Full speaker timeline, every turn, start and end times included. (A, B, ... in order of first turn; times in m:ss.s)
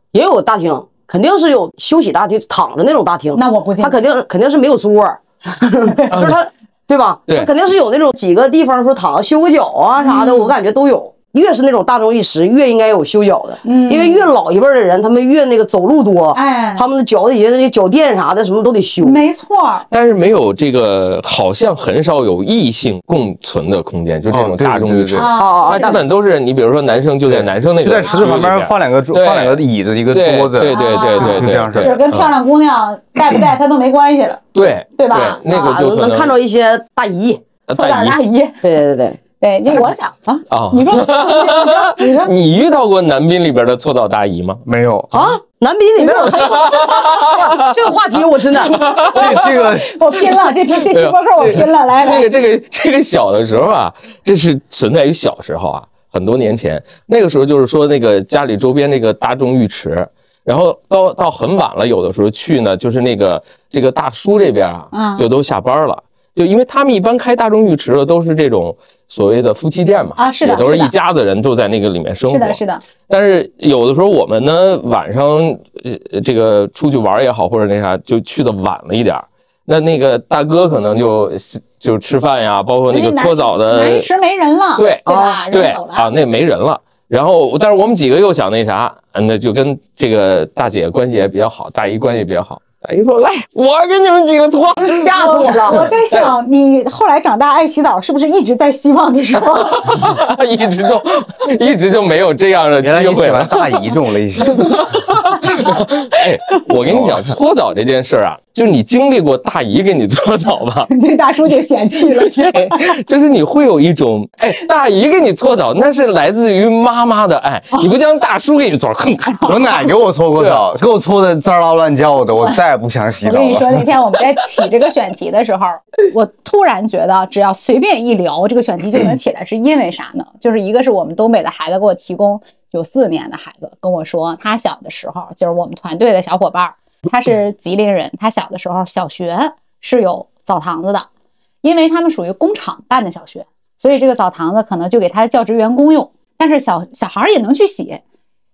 0:00.1-0:19.2 A
0:03.3-0:04.0 B
0:05.9-0:06.2 B
0:06.1-0:06.4 C
0:10.0-0:10.5 B
0:13.6-0:14.3 B
0:16.3-0:16.8 B
0:19.0-0:19.8 B
0:19.9-0:32.4 C
0:24.3-0:25.3 D
0:25.1-0:26.0 B
0:25.4-0:26.0 A
0:27.2-0:32.0 D
0:30.6-0:34.4 B
0:34.5-0:36.3 C
0:35.0-0:35.4 B
0:35.5-0:37.4 A
0:37.7-0:38.2 C
0:37.7-0:38.6 B
0:38.6-0:39.9 A
0:39.4-0:42.3 B
0:40.5-0:44.6 C
0:44.6-0:45.4 D
0:45.1-0:48.9 A
0:46.0-0:47.0 B
0:46.2-0:47.8 C
0:48.6-0:49.6 C
0:48.9-0:52.3 B
0:49.0-0:49.9 D
0:50.7-1:24.1 C
1:04.9-1:05.2 B
1:10.2-1:10.9 B
1:12.3-1:12.8 B
1:22.9-1:26.1 B
1:24.8-1:36.3 C
1:25.0-1:25.4 A
1:34.8-1:35.9 A
1:34.9-1:40.2 B
1:39.7-1:43.8 C
1:42.8-1:45.0 D
1:44.4-1:50.9 C
1:45.2-1:45.8 B
1:46.9-1:47.3 D
1:50.9-1:53.0 B
1:52.2-1:59.8 C
1:59.4-2:03.9 D
2:00.4-2:00.6 C
2:03.2-2:21.1 B
2:21.6-2:28.0 B